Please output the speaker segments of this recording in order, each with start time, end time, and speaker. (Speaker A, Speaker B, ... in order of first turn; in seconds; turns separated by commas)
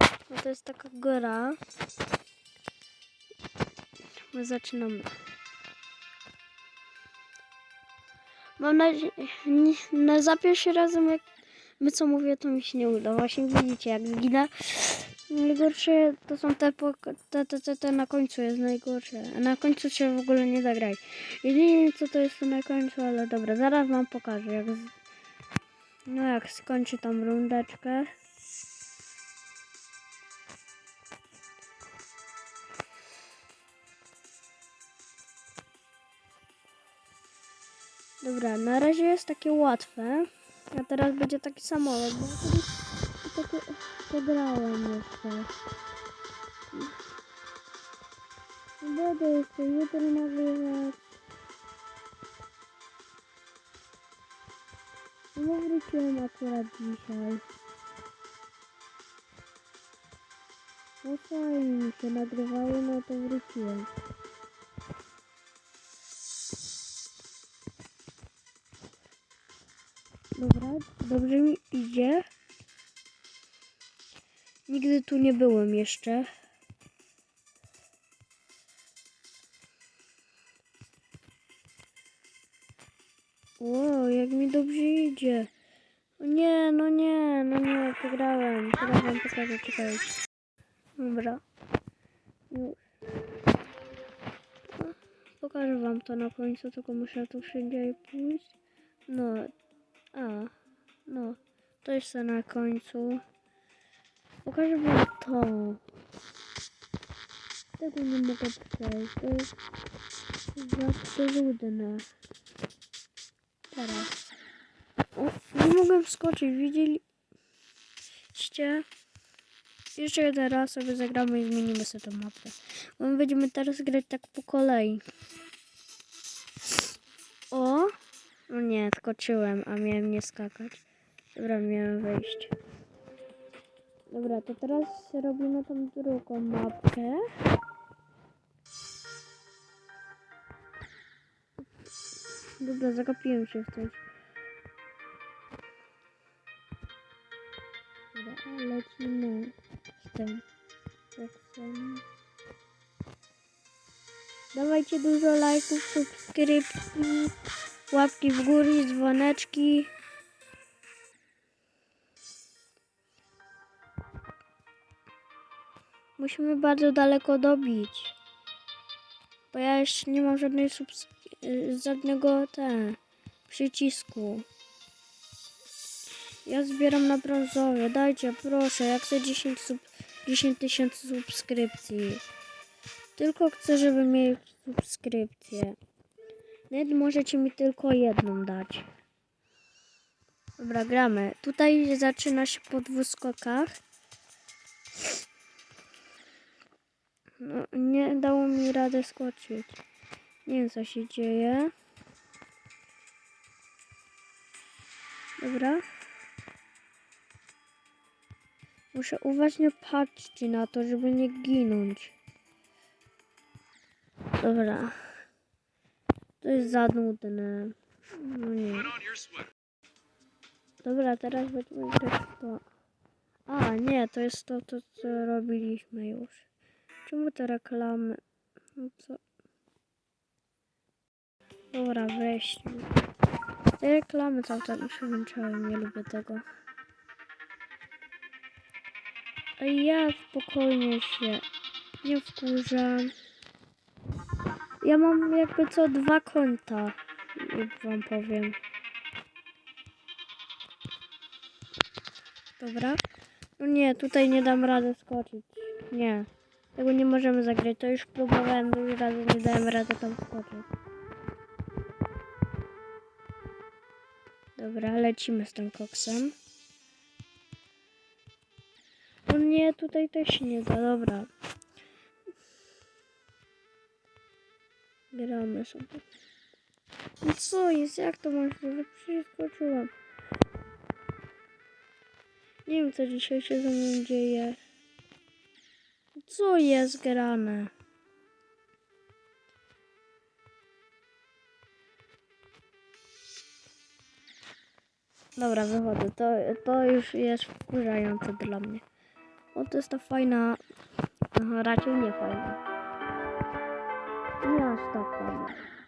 Speaker A: 0.3-1.6, Speaker A: 4.3-5.1, Speaker A: 8.6-11.2, Speaker A: 11.8-24.9, Speaker A: 26.1-28.1, Speaker A: 38.2-45.5, Speaker A: 48.8-51.0, Speaker A: 55.3-57.4, Speaker A: 61.0-63.9, Speaker A: 70.3-72.3, Speaker A: 74.7-76.3, Speaker A: 83.6-85.5, Speaker A: 86.2-90.2, Speaker A: 91.0-91.4, Speaker A: 92.5-92.8, Speaker A: 94.8-98.5, Speaker A: 99.1-99.5, Speaker A: 100.1-100.5, Speaker A: 101.1-103.2, Speaker A: 104.5-105.8, Speaker A: 107.8-109.5, Speaker A: 110.5-112.1, Speaker A: 113.7-114.2, Speaker A: 115.2-117.0, Speaker A: 118.3-118.8, Speaker A: 120.0-125.0, Speaker A: 127.5-127.9, Speaker A: 128.5-130.8, Speaker A: 131.3-132.5, Speaker A: 134.1-137.2, Speaker A: 142.6-144.0, Speaker A: 148.1-150.4, Speaker A: 151.2-152.0, Speaker A: 154.5-157.3, Speaker A: 157.9-159.9, Speaker A: 166.2-168.2, Speaker A: 169.5-174.5, Speaker A: 176.4-182.2, Speaker A: 183.2-185.8, Speaker A: 186.7-188.9, Speaker A: 190.6-193.8, Speaker A: 197.4-199.8, Speaker A: 200.5-201.7, Speaker A: 205.4-205.8, Speaker A: 208.9-212.2, Speaker A: 214.4-215.0, Speaker A: 216.4-219.0, Speaker A: 220.8-222.7, Speaker A: 223.5-226.4, Speaker A: 227.1-228.2, Speaker A: 228.8-229.2, Speaker A: 231.7-232.9, Speaker A: 233.8-236.4, Speaker A: 239.6-241.4, Speaker A: 242.0-243.1, Speaker A: 244.8-248.6, Speaker A: 252.6-253.0, Speaker A: 253.6-260.7, Speaker A: 264.6-266.4, Speaker A: 269.3-271.3, Speaker A: 275.1-276.0, Speaker A: 277.2-279.9, Speaker A: 282.7-284.6, Speaker A: 286.2-287.7, Speaker A: 295.4-298.8, Speaker A: 299.5-300.6, Speaker A: 301.3-302.6, Speaker A: 304.4-305.6